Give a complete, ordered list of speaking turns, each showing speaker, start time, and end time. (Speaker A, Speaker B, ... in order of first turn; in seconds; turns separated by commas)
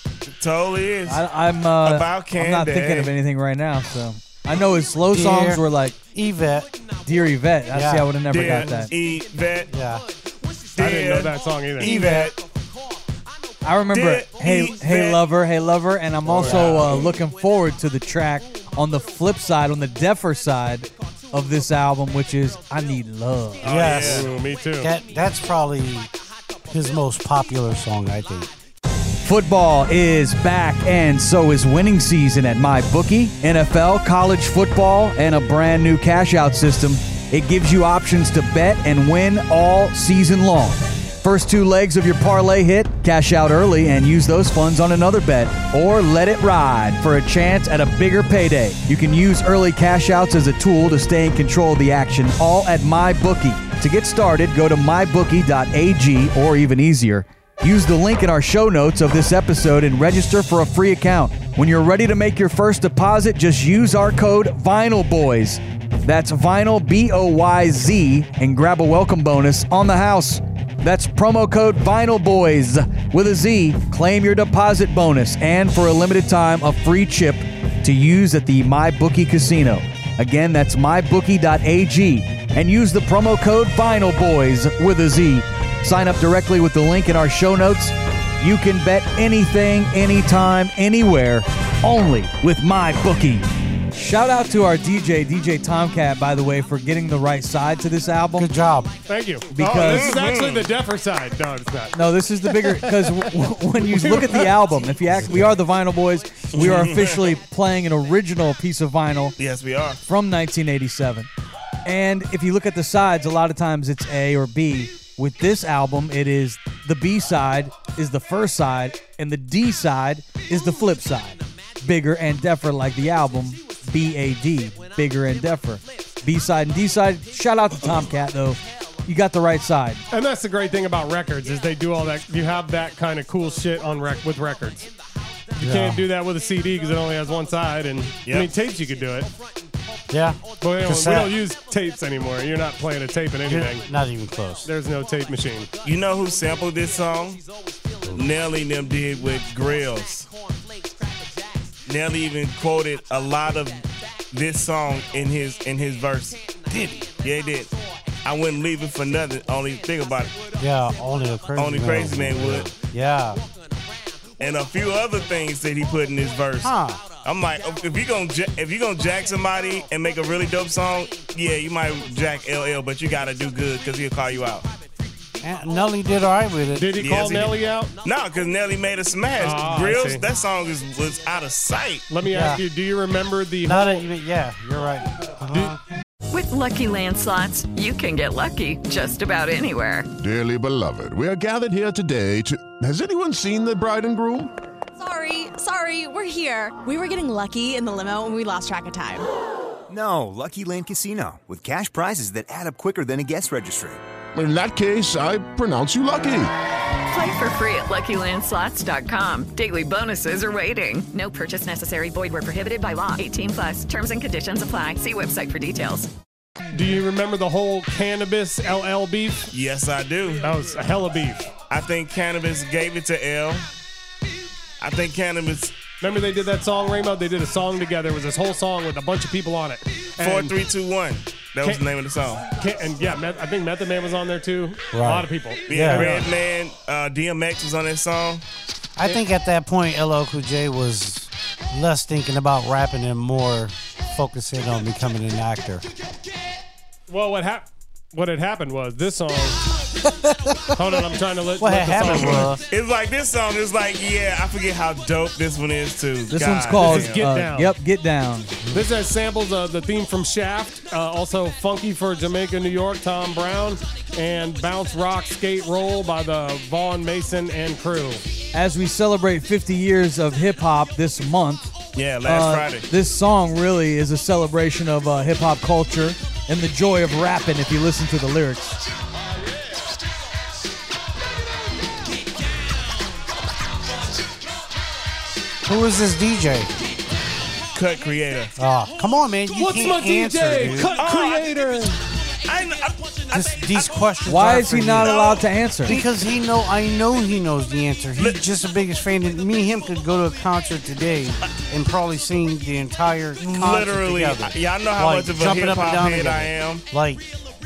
Speaker A: 0.3-1.2, Speaker B: 1.1-6.0, Speaker A: 1.8-3.1, Speaker C: 5.1-6.7, Speaker B: 7.0-8.9, Speaker C: 7.7-8.1, Speaker A: 8.3-9.7, Speaker C: 9.7-10.0, Speaker A: 10.8-12.3, Speaker D: 10.8-12.0, Speaker C: 11.8-12.3, Speaker B: 13.6-23.6, Speaker A: 13.9-15.2, Speaker C: 16.4-16.8, Speaker A: 16.4-17.0, Speaker A: 23.6-24.3, Speaker C: 23.6-26.1, Speaker D: 23.8-24.9, Speaker C: 26.7-28.5, Speaker B: 29.2-98.5, Speaker C: 98.3-98.9, Speaker D: 99.1-102.0, Speaker B: 99.5-100.1, Speaker A: 99.8-100.7, Speaker B: 101.9-109.4, Speaker D: 102.5-103.1, Speaker D: 103.9-104.5, Speaker C: 105.1-105.5, Speaker A: 106.5-107.3, Speaker A: 109.4-110.0, Speaker B: 110.0-111.3, Speaker B: 111.8-130.0, Speaker D: 130.1-134.9, Speaker D: 135.6-139.3, Speaker C: 135.6-136.0, Speaker A: 138.2-138.5, Speaker C: 140.1-141.4, Speaker D: 140.6-143.8, Speaker C: 143.4-144.7, Speaker D: 144.6-145.7, Speaker A: 145.8-147.4, Speaker A: 148.1-150.3, Speaker A: 151.9-156.4, Speaker C: 156.7-157.1, Speaker A: 157.2-157.7, Speaker A: 158.2-160.3, Speaker C: 160.6-163.4, Speaker A: 161.6-162.7, Speaker A: 164.4-174.7, Speaker C: 166.6-167.0, Speaker C: 175.4-176.9, Speaker D: 176.8-177.9, Speaker A: 177.0-182.1, Speaker D: 179.4-180.2, Speaker D: 182.1-184.0, Speaker C: 182.2-182.6, Speaker C: 183.6-185.8, Speaker E: 186.3-190.1, Speaker F: 190.2-194.5, Speaker G: 195.0-199.2, Speaker H: 199.9-204.0, Speaker F: 204.3-206.5, Speaker E: 207.1-216.1, Speaker D: 216.7-219.5, Speaker A: 219.5-220.4, Speaker D: 220.4-221.5, Speaker A: 221.7-223.7, Speaker A: 224.8-225.8, Speaker D: 226.0-230.5, Speaker A: 230.2-232.4, Speaker D: 232.5-236.3, Speaker C: 234.9-236.2, Speaker A: 235.7-238.4, Speaker C: 239.0-245.8, Speaker D: 247.1-249.6, Speaker C: 250.0-251.0, Speaker D: 250.7-252.6, Speaker C: 251.6-252.6, Speaker A: 252.0-257.2, Speaker B: 256.3-258.6, Speaker D: 256.7-257.7, Speaker C: 258.6-258.9, Speaker D: 258.7-268.2, Speaker B: 268.5-271.7, Speaker A: 271.9-272.9, Speaker B: 272.2-278.8, Speaker C: 285.6-286.7, Speaker A: 287.7-288.5, Speaker C: 288.6-290.9, Speaker D: 289.6-291.9, Speaker A: 290.9-291.6, Speaker A: 292.4-293.9, Speaker C: 293.3-295.3, Speaker B: 294.2-296.0, Speaker A: 295.0-295.5, Speaker C: 295.8-307.2, Speaker A: 303.4-306.8